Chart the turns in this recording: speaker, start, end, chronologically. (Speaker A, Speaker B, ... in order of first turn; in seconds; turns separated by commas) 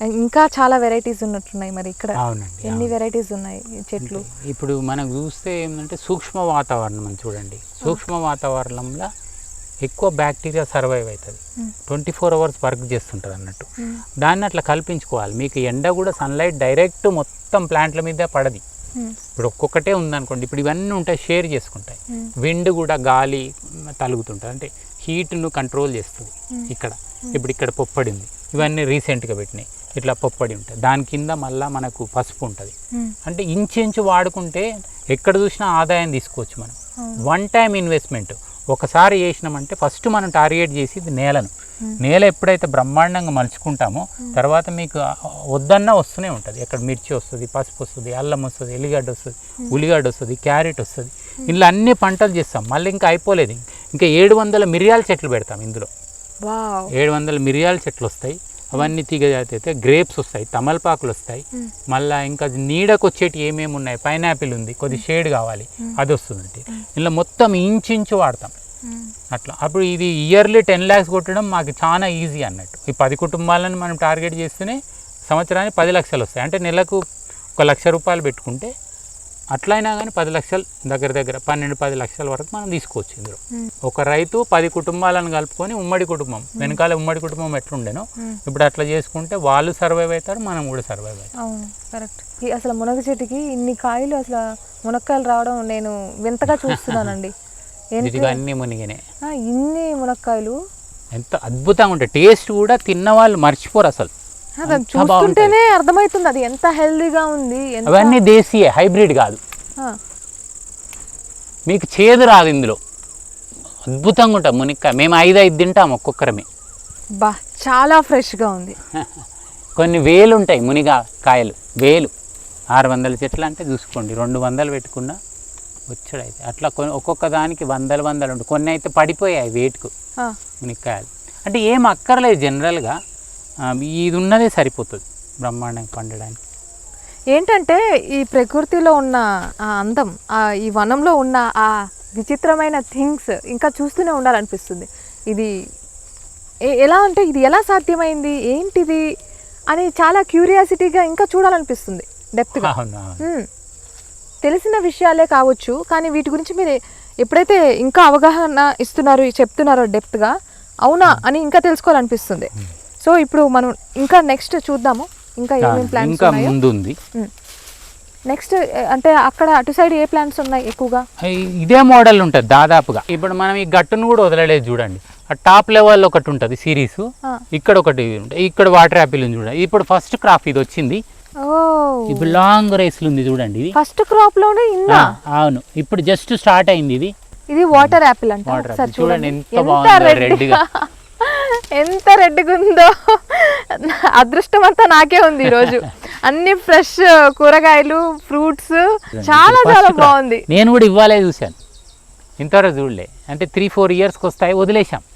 Speaker A: 0.2-4.2, Speaker B: 2.2-2.9, Speaker B: 4.0-9.1, Speaker B: 9.8-13.7, Speaker B: 14.2-18.6, Speaker B: 19.4-32.7, Speaker B: 33.2-55.9, Speaker A: 56.5-56.9, Speaker B: 56.9-68.5, Speaker B: 69.3-77.0, Speaker B: 77.6-78.7, Speaker B: 79.5-91.3, Speaker A: 91.4-97.3, Speaker B: 96.5-97.1, Speaker A: 98.0-98.4, Speaker B: 98.0-99.0, Speaker A: 99.3-100.5, Speaker B: 101.1-104.1, Speaker A: 104.6-108.2, Speaker B: 104.7-105.5, Speaker B: 107.9-109.4, Speaker B: 111.7-112.8, Speaker B: 113.9-116.5, Speaker A: 117.2-118.8, Speaker B: 118.9-119.2, Speaker B: 119.8-122.1, Speaker B: 122.7-125.2, Speaker B: 125.9-129.9, Speaker B: 130.6-133.0, Speaker B: 133.6-136.4, Speaker A: 137.3-145.5, Speaker A: 146.7-149.0, Speaker A: 149.7-152.7, Speaker B: 152.6-153.2, Speaker A: 154.4-160.3, Speaker A: 160.9-162.5, Speaker A: 163.0-166.5, Speaker B: 165.6-166.9, Speaker A: 168.3-171.0, Speaker B: 171.2-181.0, Speaker A: 181.4-182.3, Speaker B: 182.1-183.7, Speaker A: 183.7-185.1, Speaker B: 184.9-187.1, Speaker A: 187.5-200.4, Speaker B: 187.7-190.6, Speaker B: 195.5-195.8, Speaker B: 199.1-201.6, Speaker B: 202.4-205.0